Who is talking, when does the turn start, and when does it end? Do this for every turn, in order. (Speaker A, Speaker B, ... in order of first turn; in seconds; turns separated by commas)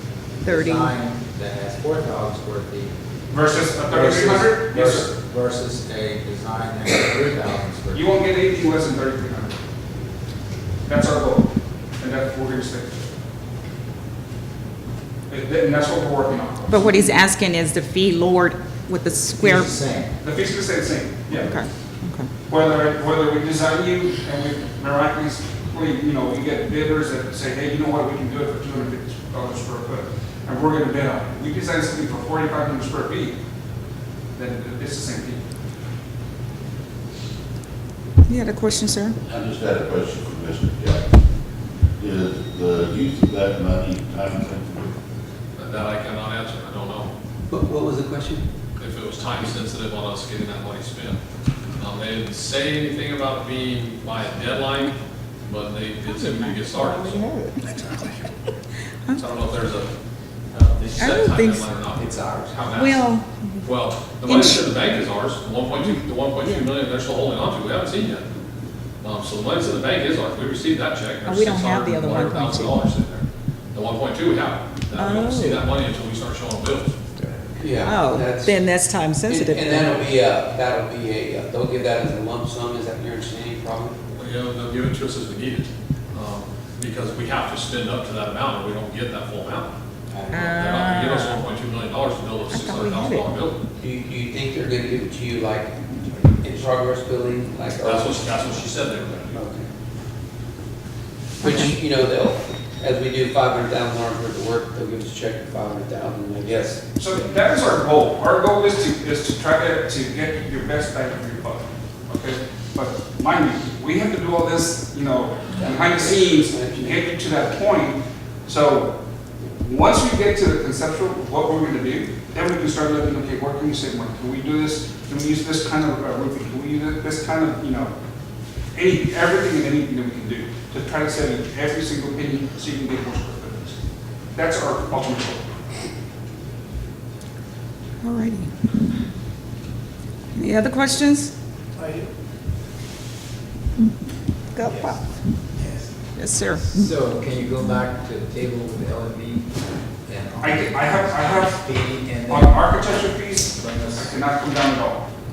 Speaker A: 0.4-2.9, Speaker B: 0.4-0.9, Speaker C: 3.3-5.1, Speaker A: 3.9-8.1, Speaker C: 7.9-9.6, Speaker C: 10.8-12.9, Speaker C: 15.3-16.9, Speaker B: 16.7-19.8, Speaker A: 19.3-20.2, Speaker C: 20.2-21.6, Speaker B: 21.3-22.3, Speaker C: 22.4-33.4, Speaker C: 34.3-35.4, Speaker B: 38.3-39.2, Speaker D: 39.2-41.2, Speaker D: 42.0-45.0, Speaker E: 45.5-47.1, Speaker F: 47.5-48.5, Speaker E: 48.8-51.2, Speaker E: 51.8-57.3, Speaker B: 56.1-58.3, Speaker E: 59.1-60.0, Speaker E: 60.5-63.1, Speaker B: 61.0-61.7, Speaker A: 61.9-62.6, Speaker B: 62.7-63.7, Speaker E: 63.6-68.3, Speaker B: 64.2-64.7, Speaker B: 66.4-66.7, Speaker E: 69.0-77.0, Speaker B: 71.2-72.8, Speaker B: 74.9-75.6, Speaker F: 77.5-84.0, Speaker B: 77.8-80.0, Speaker E: 84.1-89.7, Speaker F: 90.1-90.9, Speaker E: 90.3-93.6, Speaker B: 90.3-91.4, Speaker B: 92.5-93.3, Speaker F: 93.8-98.6, Speaker E: 97.8-99.4, Speaker F: 99.3-99.7, Speaker F: 101.4-106.8, Speaker B: 101.4-101.8, Speaker C: 107.0-127.9, Speaker F: 115.5-117.1, Speaker C: 128.7-133.8, Speaker C: 134.3-135.4, Speaker B: 138.0-138.8, Speaker B: 140.3-141.3, Speaker B: 144.5-145.0, Speaker A: 144.6-145.0, Speaker A: 145.5-145.9, Speaker B: 146.1-146.8, Speaker A: 146.5-153.0, Speaker C: 150.4-155.1, Speaker A: 153.5-154.2